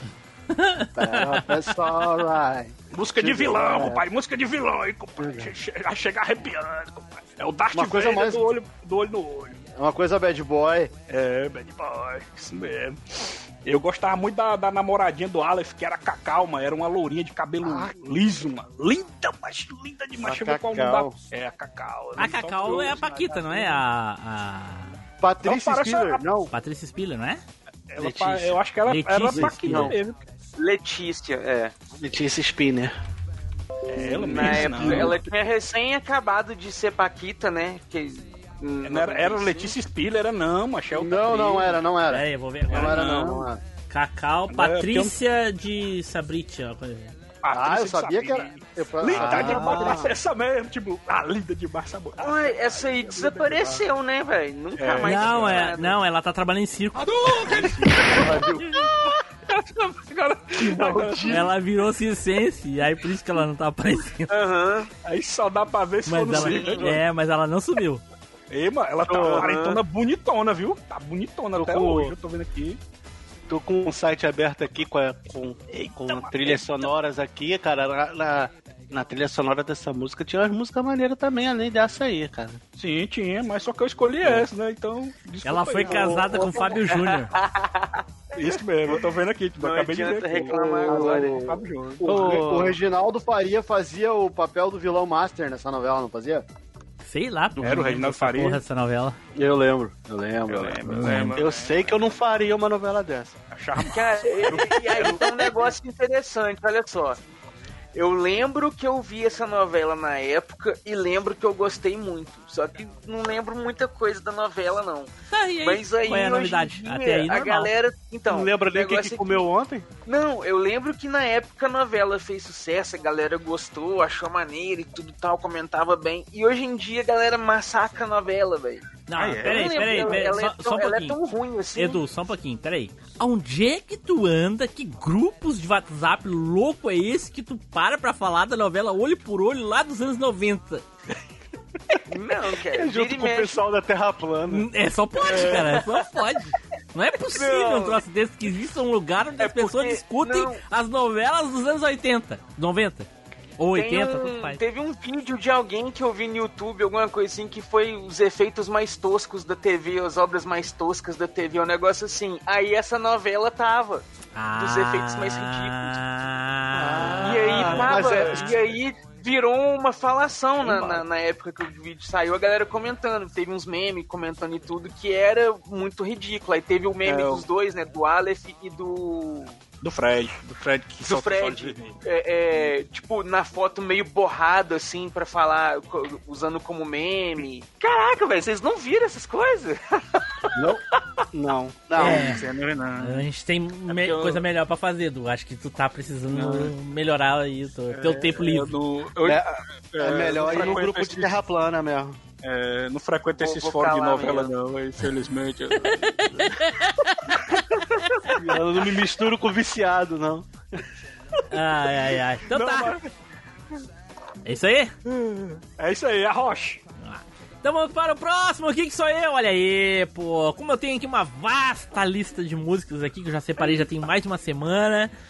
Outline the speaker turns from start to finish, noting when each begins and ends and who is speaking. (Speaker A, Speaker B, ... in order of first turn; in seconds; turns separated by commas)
Speaker A: 0.6-1.5, Speaker B: 1.0-4.1, Speaker C: 2.9-9.6, Speaker B: 5.2-5.5, Speaker B: 7.7-8.5, Speaker B: 9.8-10.9, Speaker C: 11.1-13.0, Speaker C: 13.7-23.8, Speaker B: 20.2-21.1, Speaker A: 22.2-24.9, Speaker B: 25.2-26.5, Speaker C: 25.4-26.3, Speaker A: 26.5-27.4, Speaker C: 27.9-30.2, Speaker D: 28.0-28.6, Speaker A: 28.9-29.9, Speaker B: 29.3-30.0, Speaker E: 30.6-31.7, Speaker D: 32.0-32.9, Speaker C: 33.9-35.2, Speaker B: 34.2-35.1, Speaker E: 34.2-39.8, Speaker C: 38.8-41.8, Speaker B: 40.9-43.6, Speaker A: 42.1-43.1, Speaker C: 42.7-43.5, Speaker A: 43.9-47.2, Speaker C: 44.5-45.1, Speaker C: 47.4-53.9, Speaker B: 47.5-50.2, Speaker A: 49.3-49.6, Speaker E: 52.2-56.0, Speaker C: 54.8-55.8, Speaker A: 55.0-57.6, Speaker C: 57.0-61.5, Speaker B: 58.0-58.9, Speaker B: 60.7-61.3, Speaker A: 61.3-64.3, Speaker E: 64.3-64.9, Speaker C: 65.0-67.0, Speaker A: 66.1-68.0, Speaker C: 68.5-72.8, Speaker D: 69.0-69.5, Speaker E: 69.3-69.8, Speaker D: 71.6-72.2, Speaker D: 73.5-82.6, Speaker C: 76.0-76.9, Speaker C: 82.8-86.7, Speaker A: 85.4-87.3, Speaker B: 85.9-86.8, Speaker E: 86.9-88.9, Speaker C: 88.4-92.7, Speaker E: 89.6-91.3, Speaker B: 90.5-96.5, Speaker D: 92.1-92.7, Speaker A: 97.0-99.2, Speaker C: 97.6-98.6, Speaker B: 99.3-101.3, Speaker C: 100.5-102.2, Speaker A: 100.9-101.3, Speaker D: 101.3-103.4, Speaker C: 103.5-105.5, Speaker E: 103.8-107.2, Speaker B: 104.5-105.0, Speaker E: 108.0-119.5, Speaker A: 115.3-117.7, Speaker D: 118.3-119.9, Speaker E: 120.1-132.0, Speaker A: 129.1-131.2, Speaker C: 129.1-130.3, Speaker A: 131.8-140.8, Speaker E: 142.1-143.6, Speaker D: 142.7-144.7, Speaker A: 144.5-154.6, Speaker C: 145.3-145.8, Speaker E: 147.3-148.0, Speaker E: 149.4-150.6, Speaker E: 153.7-164.1, Speaker A: 164.3-168.4, Speaker E: 164.6-165.9, Speaker B: 167.0-168.4, Speaker E: 167.2-179.6, Speaker C: 167.5-168.4, Speaker C: 177.1-177.5, Speaker C: 179.8-182.0, Speaker E: 181.0-190.5, Speaker B: 190.6-190.8, Speaker D: 191.3-192.2, Speaker B: 191.9-192.3, Speaker C: 192.0-193.3, Speaker A: 192.0-192.4, Speaker A: 193.0-198.7, Speaker C: 193.9-194.4, Speaker C: 196.3-196.7, Speaker C: 197.9-201.5, Speaker D: 200.0-202.2, Speaker E: 200.5-200.8, Speaker C: 202.4-206.4, Speaker E: 203.4-204.5, Speaker A: 206.0-206.9, Speaker C: 208.2-208.8, Speaker D: 208.3-210.5, Speaker A: 211.5-212.9, Speaker C: 212.4-213.1, Speaker A: 214.4-214.9, Speaker C: 215.1-216.8, Speaker A: 217.0-225.1